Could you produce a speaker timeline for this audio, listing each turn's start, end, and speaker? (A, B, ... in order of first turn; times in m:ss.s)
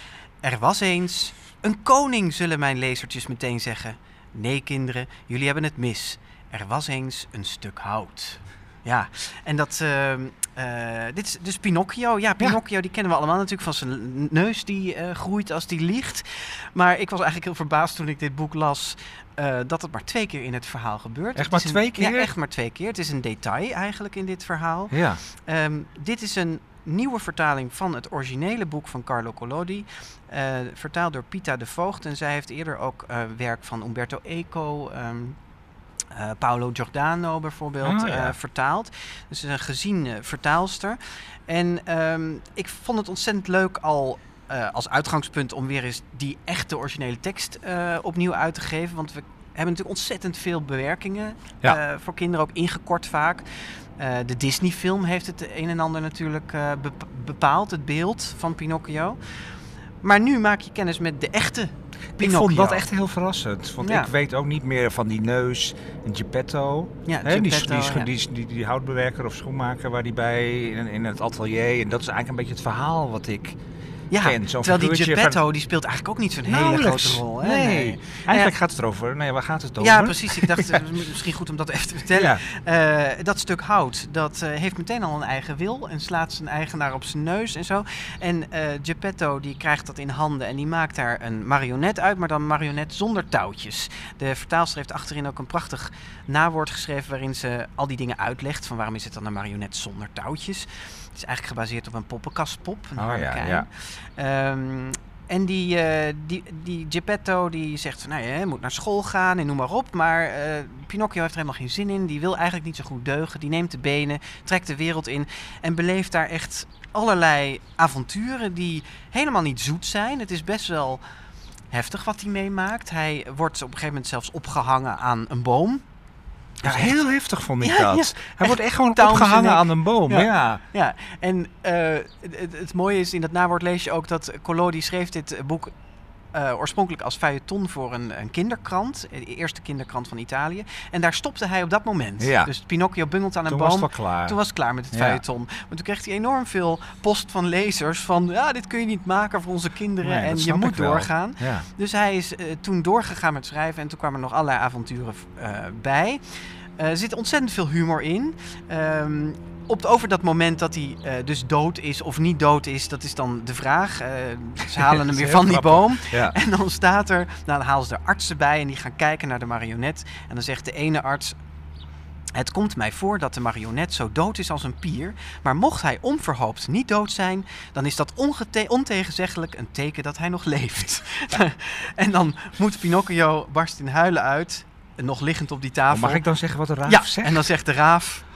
0:00.4-0:35.4 A
0:21.4-0:22.3 B
0:24.9-0:25.2 B
0:36.1-1:02.9 A
0:37.8-0:38.4 B
1:02.1-1:13.6 B
1:03.8-1:04.1 A
1:07.1-1:08.1 A
1:14.1-1:18.5 A
1:14.2-1:15.4 B
1:16.5-1:20.9 B
1:19.8-2:01.0 A
1:22.1-1:22.4 B
1:43.0-1:43.7 B
2:01.7-2:05.8 A
2:06.6-2:07.0 A
2:06.6-2:10.6 B
2:07.6-2:15.7 A
2:16.3-2:51.4 A
2:22.2-2:22.5 B
2:23.5-2:24.4 B
2:24.9-2:25.2 B
2:30.0-2:31.7 B
2:44.9-2:46.4 B
2:52.4-3:06.3 A
3:05.9-3:07.5 B
3:06.8-3:08.2 A